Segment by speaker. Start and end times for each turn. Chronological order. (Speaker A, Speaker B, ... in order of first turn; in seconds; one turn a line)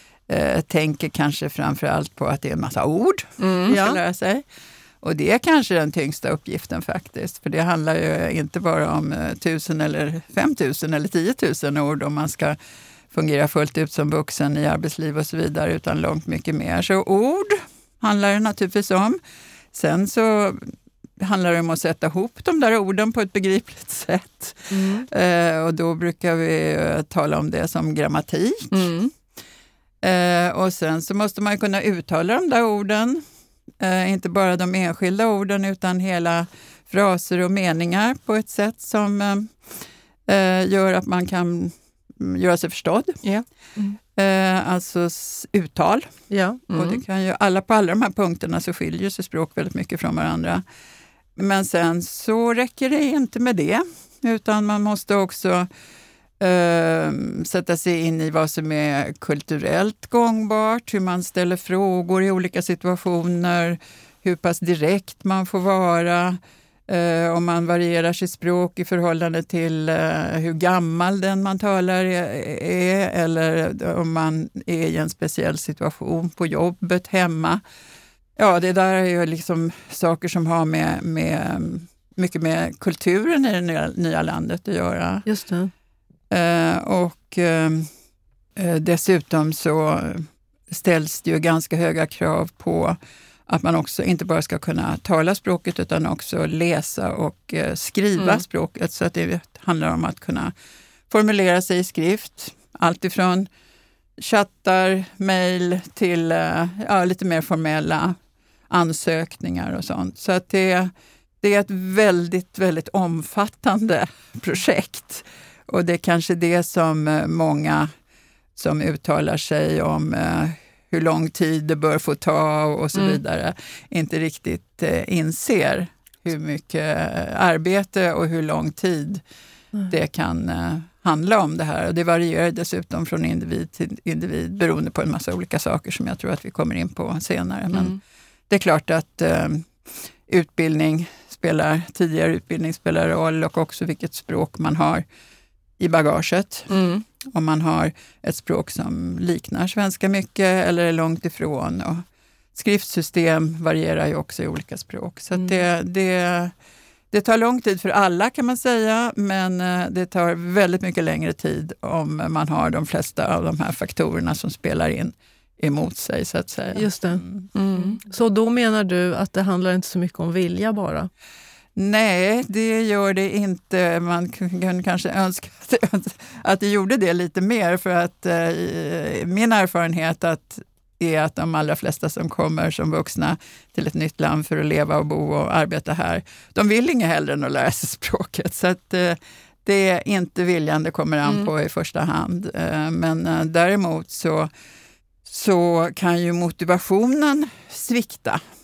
Speaker A: 0.3-4.4
Speaker B: 3.4-3.8
Speaker C: 3.7-4.0
Speaker A: 5.0-12.6
Speaker A: 13.1-19.2
Speaker A: 19.7-28.9
Speaker C: 24.7-25.1
Speaker B: 28.7-29.1
Speaker A: 30.0-33.2
Speaker A: 33.8-39.7
Speaker A: 40.3-43.2
Speaker A: 44.1-46.1
Speaker C: 46.3-46.6
Speaker B: 46.7-47.0
Speaker A: 46.7-50.6
Speaker A: 51.4-55.7
Speaker A: 56.4-77.6
Speaker A: 78.4-85.2
Speaker C: 85.2-85.7
Speaker A: 86.3-87.9
Speaker A: 88.5-100.5
Speaker B: 98.2-98.4
Speaker A: 101.1-103.5
Speaker A: 104.2-108.2
Speaker A: 108.7-117.9
Speaker A: 118.5-129.2
Speaker A: 129.9-138.0
Speaker A: 138.5-145.0
Speaker A: 145.8-146.7
Speaker B: 146.7-147.0
Speaker A: 147.2-156.5
Speaker A: 157.1-167.5
Speaker C: 166.7-167.2
Speaker B: 167.5-168.0
Speaker C: 167.8-171.1
Speaker A: 171.8-194.5
Speaker A: 195.2-198.4